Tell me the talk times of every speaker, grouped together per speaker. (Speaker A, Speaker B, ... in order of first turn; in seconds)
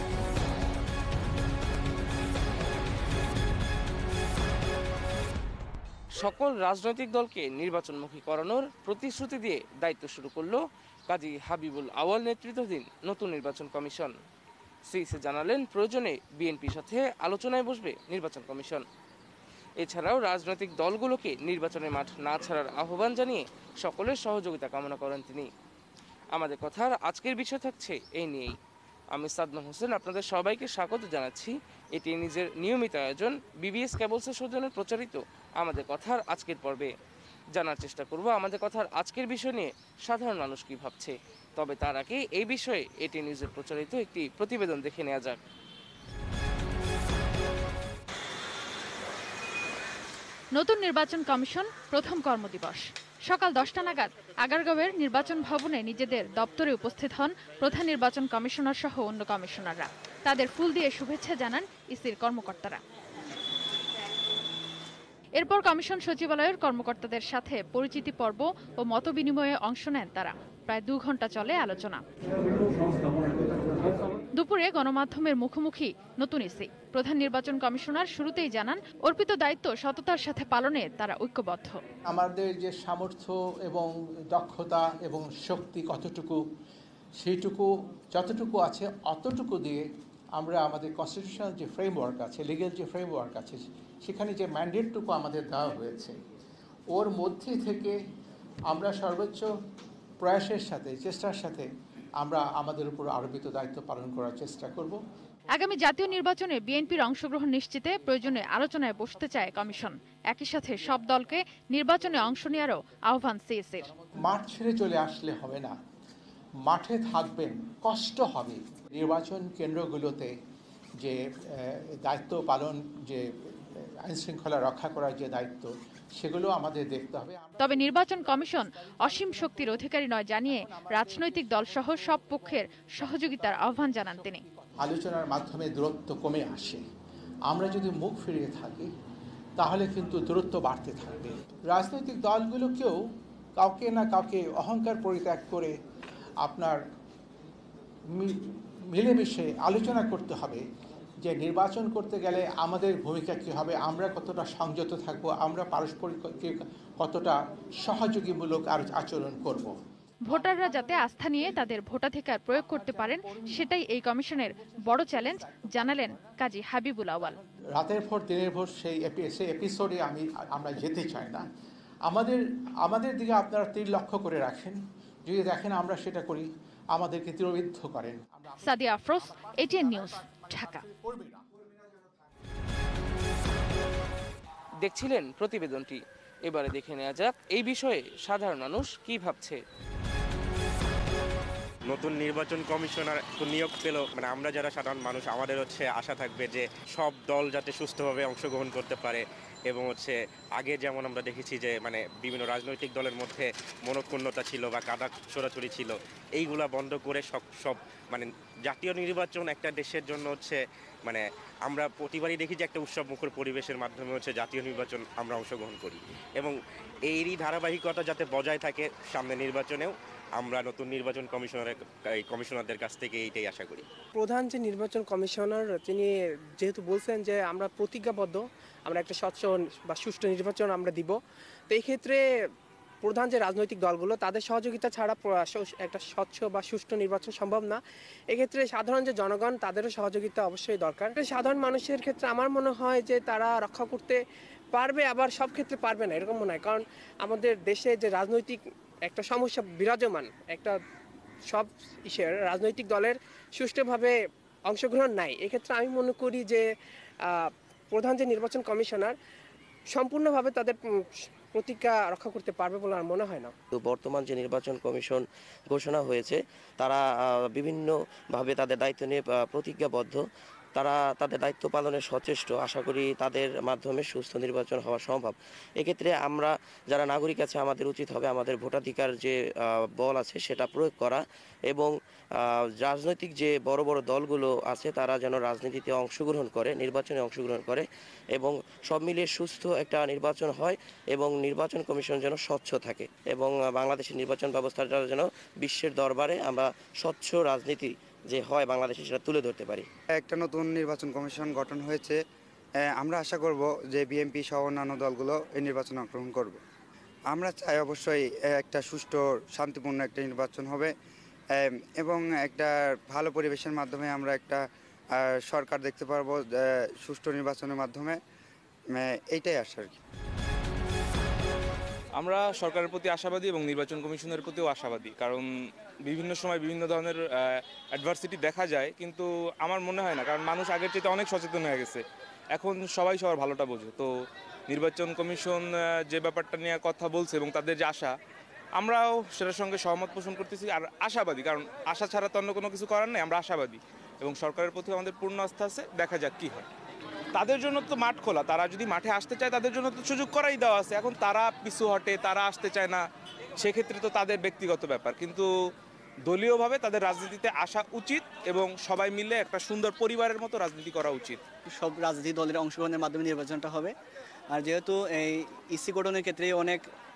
Speaker A: 6.2-14.1, 14.9-18.8, 19.8-25.5, 26.3-28.5, 29.1-36.9, 37.5-45.4, 184.8-189.6
Speaker B: 50.5-62.8, 65.4-72.0, 74.3-81.8, 105.5-113.9, 127.6-134.4, 160.2-167.4, 178.6-180.8
Speaker C: 82.1-86.4, 87.2-89.8, 90.4-96.2, 96.9-98.0, 98.7-99.5, 100.2-101.7, 102.2-105.0, 114.2-115.7, 116.7-120.3, 121.0-136.8, 137.5-138.9, 139.6-143.0, 143.6-145.7, 146.4-146.8, 148.9-150.6, 151.2-159.8, 160.3-161.7, 162.5-163.8, 164.3-166.3, 167.2-171.4, 172.1-181.5
Speaker D: 191.8-216.5, 217.1-223.8
Speaker E: 224.1-231.1, 231.7-232.2, 233.0-237.8, 238.3-244.2, 244.7-250.8, 251.5-254.1, 254.7-256.6, 257.3-259.1, 259.9-260.8, 261.5-263.5
Speaker F: 263.7-270.2, 270.7-299.9
Speaker G: 300.1-302.2, 302.8-306.6, 307.3-310.9, 311.5-314.6, 315.1-318.2, 318.9-319.9
Speaker H: 322.1-325.5, 326.0-332.0, 332.5-334.1, 334.7-338.1, 338.8-346.7, 347.3-353.0, 353.6-355.5, 356.2-361.4
Speaker I: 361.7-363.9, 364.5-366.8